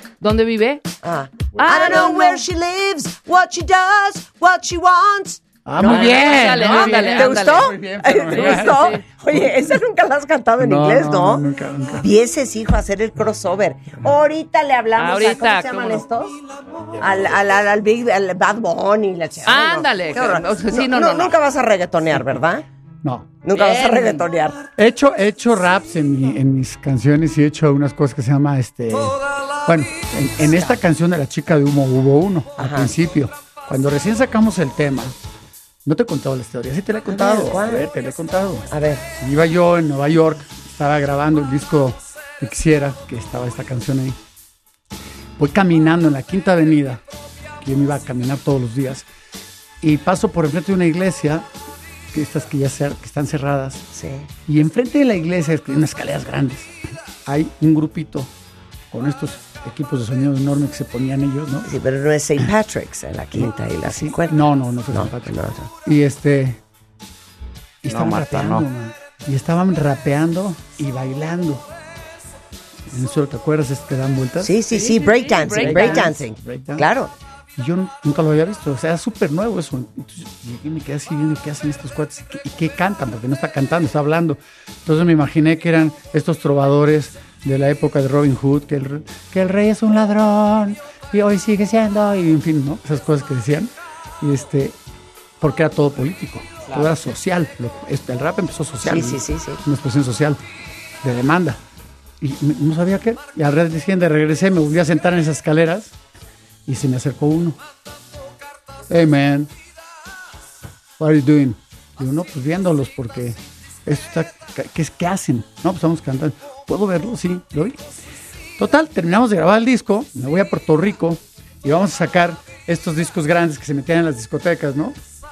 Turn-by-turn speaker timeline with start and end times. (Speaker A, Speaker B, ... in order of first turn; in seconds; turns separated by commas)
Speaker A: 0.2-0.8, Speaker B: 1.0-16.3, Speaker A: 1.6-2.5, Speaker C: 5.7-9.7, Speaker A: 5.8-9.1, Speaker C: 10.6-12.1, Speaker A: 14.9-16.1, Speaker B: 17.0-22.6, Speaker A: 19.4-21.4, Speaker C: 23.0-23.3, Speaker B: 23.4-24.6, Speaker A: 23.5-24.3, Speaker C: 24.8-35.2, Speaker B: 30.4-30.8, Speaker B: 32.6-32.9, Speaker C: 35.9-38.7, Speaker B: 37.1-37.9, Speaker B: 38.7-39.0, Speaker C: 39.2-44.2, Speaker C: 45.4-47.0, Speaker C: 47.6-49.1, Speaker C: 49.8-51.5, Speaker C: 52.1-53.9, Speaker B: 53.9-54.3, Speaker C: 54.5-56.7, Speaker C: 57.2-58.3, Speaker C: 58.9-61.7, Speaker B: 61.6-64.4, Speaker C: 63.3-66.6, Speaker B: 64.9-65.7, Speaker C: 67.8-71.7, Speaker C: 72.9-74.6, Speaker B: 74.4-77.1, Speaker A: 74.7-76.2, Speaker C: 75.5-76.9, Speaker C: 77.5-94.8, Speaker C: 95.4-100.4, Speaker B: 98.8-99.6, Speaker C: 101.0-101.6, Speaker C: 102.2-105.9, Speaker C: 106.7-107.6, Speaker C: 108.9-109.5, Speaker C: 111.0-117.8, Speaker C: 118.6-125.0